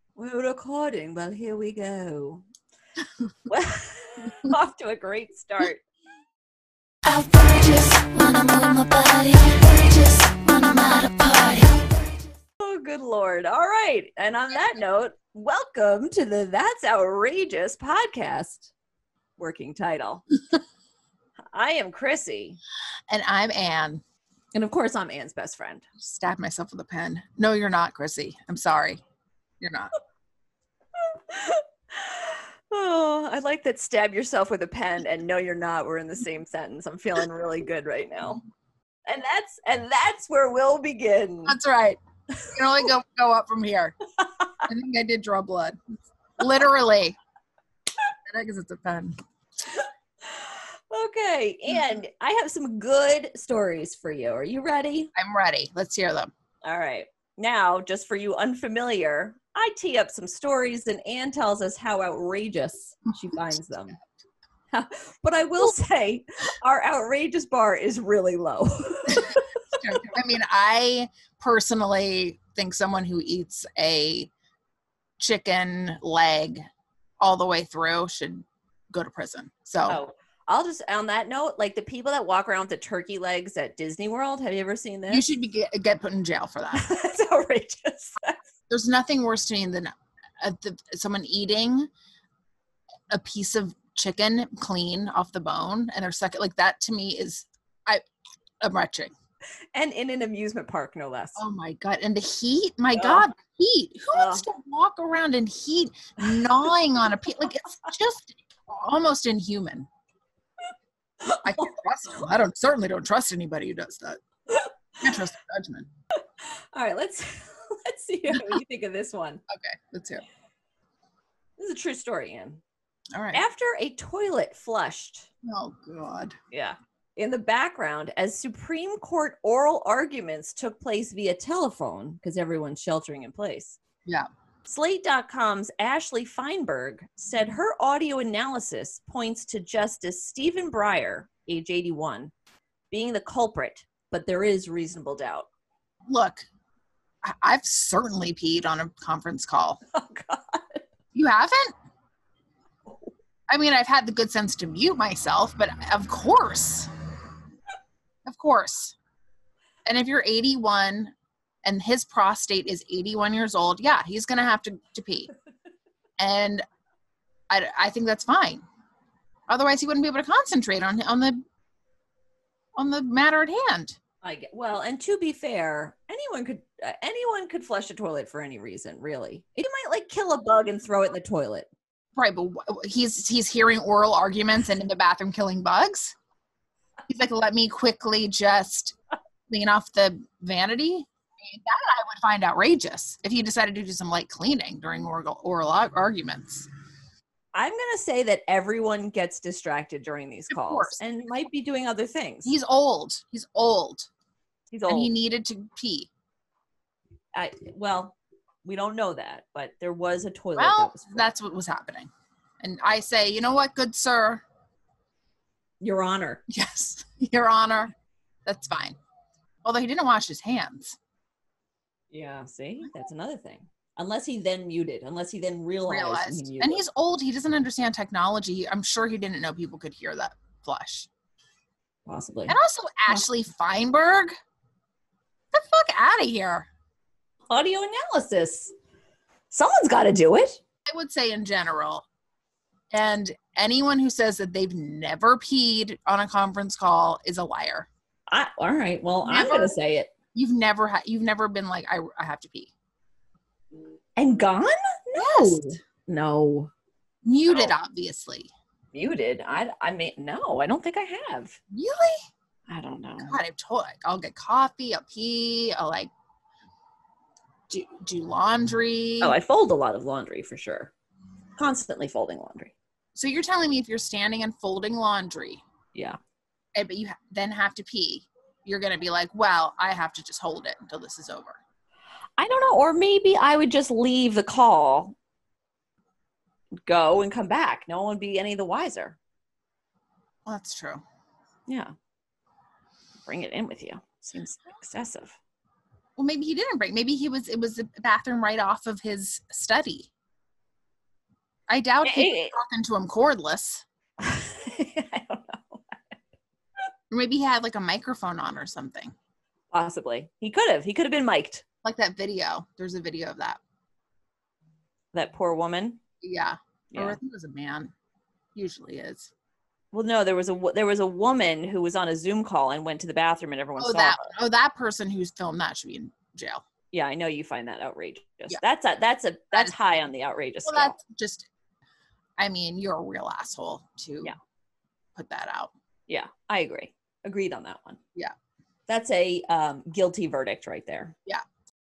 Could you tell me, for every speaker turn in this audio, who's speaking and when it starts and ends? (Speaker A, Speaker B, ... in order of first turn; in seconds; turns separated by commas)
Speaker A: 0.1-2.5, Speaker A: 3.5-5.8, Speaker B: 7.0-11.9, Speaker A: 12.6-18.7, Speaker A: 19.4-20.2, Speaker A: 21.5-22.6, Speaker C: 23.1-24.0, Speaker A: 24.5-25.8, Speaker C: 26.0-29.0, Speaker C: 29.6-29.9, Speaker A: 31.0-38.4, Speaker A: 39.0-41.6, Speaker C: 41.5-43.9, Speaker C: 44.6-45.8, Speaker C: 46.4-47.2, Speaker C: 48.3-49.1, Speaker A: 49.7-55.1, Speaker C: 55.1-56.3, Speaker A: 56.6-64.0, Speaker A: 64.7-69.4, Speaker C: 69.1-74.3, Speaker C: 75.2-76.7, Speaker C: 77.2-80.0, Speaker A: 79.8-85.3, Speaker C: 85.1-86.9, Speaker A: 86.7-88.4, Speaker C: 88.7-91.9, Speaker C: 93.1-98.0, Speaker C: 98.6-99.1, Speaker A: 99.7-101.4, Speaker C: 101.4-109.9, Speaker A: 103.0-103.2, Speaker A: 104.1-104.4, Speaker A: 106.2-106.7, Speaker A: 111.2-111.7, Speaker C: 111.4-114.2, Speaker C: 115.0-115.9, Speaker A: 116.2-119.4, Speaker C: 119.5-120.2, Speaker A: 121.6-122.6, Speaker C: 123.1-123.4, Speaker A: 123.3-125.3, Speaker C: 125.4-126.4, Speaker A: 126.5-133.8, Speaker A: 134.7-142.3, Speaker A: 142.9-145.5, Speaker C: 146.1-146.4, Speaker C: 147.2-149.8, Speaker A: 149.9-150.8, Speaker C: 151.1-151.7, Speaker C: 153.5-156.9, Speaker C: 158.2-158.9, Speaker C: 159.8-165.3, Speaker C: 166.2-166.6, Speaker C: 167.5-168.6, Speaker C: 169.5-171.4, Speaker C: 172.8-174.0, Speaker A: 174.2-181.7, Speaker C: 182.2-186.1, Speaker C: 187.1-188.9, Speaker C: 189.5-196.7, Speaker A: 197.5-202.5, Speaker C: 200.5-201.0, Speaker C: 202.4-204.1, Speaker A: 204.7-205.1, Speaker C: 204.9-206.1, Speaker A: 207.3-211.3, Speaker C: 210.6-212.1, Speaker C: 212.6-214.4, Speaker A: 215.8-216.4, Speaker C: 216.5-217.9, Speaker C: 218.4-219.0, Speaker C: 219.6-221.0, Speaker A: 222.1-226.8, Speaker C: 225.9-231.1, Speaker A: 232.1-232.6, Speaker C: 232.5-234.3, Speaker C: 235.5-236.7, Speaker A: 237.5-238.7, Speaker A: 239.5-240.6, Speaker C: 240.9-242.0, Speaker C: 242.9-247.9, Speaker A: 248.3-250.1, Speaker C: 249.2-249.8, Speaker C: 250.3-252.7, Speaker A: 254.2-256.7, Speaker C: 255.1-255.8, Speaker C: 257.2-258.5, Speaker A: 257.5-257.7, Speaker A: 258.9-261.6, Speaker C: 261.7-262.2, Speaker A: 262.7-263.4, Speaker C: 263.2-266.1, Speaker C: 267.7-269.3, Speaker A: 269.2-270.9, Speaker A: 271.6-272.7, Speaker C: 273.1-275.6, Speaker C: 276.8-281.6, Speaker A: 282.4-285.1, Speaker A: 286.8-289.2, Speaker C: 290.4-291.0, Speaker A: 291.7-291.9, Speaker A: 293.2-295.4, Speaker C: 296.2-300.1, Speaker C: 301.7-303.8, Speaker A: 302.0-302.5, Speaker A: 304.2-306.1, Speaker C: 307.1-309.1, Speaker A: 309.7-311.6, Speaker C: 311.8-313.6, Speaker A: 315.1-316.0, Speaker C: 316.2-317.9, Speaker C: 318.5-319.3, Speaker A: 319.9-324.3, Speaker C: 323.8-326.6, Speaker A: 326.9-330.9, Speaker C: 330.6-331.5, Speaker C: 332.4-334.3, Speaker C: 335.1-335.7, Speaker A: 336.1-338.0, Speaker A: 338.9-341.1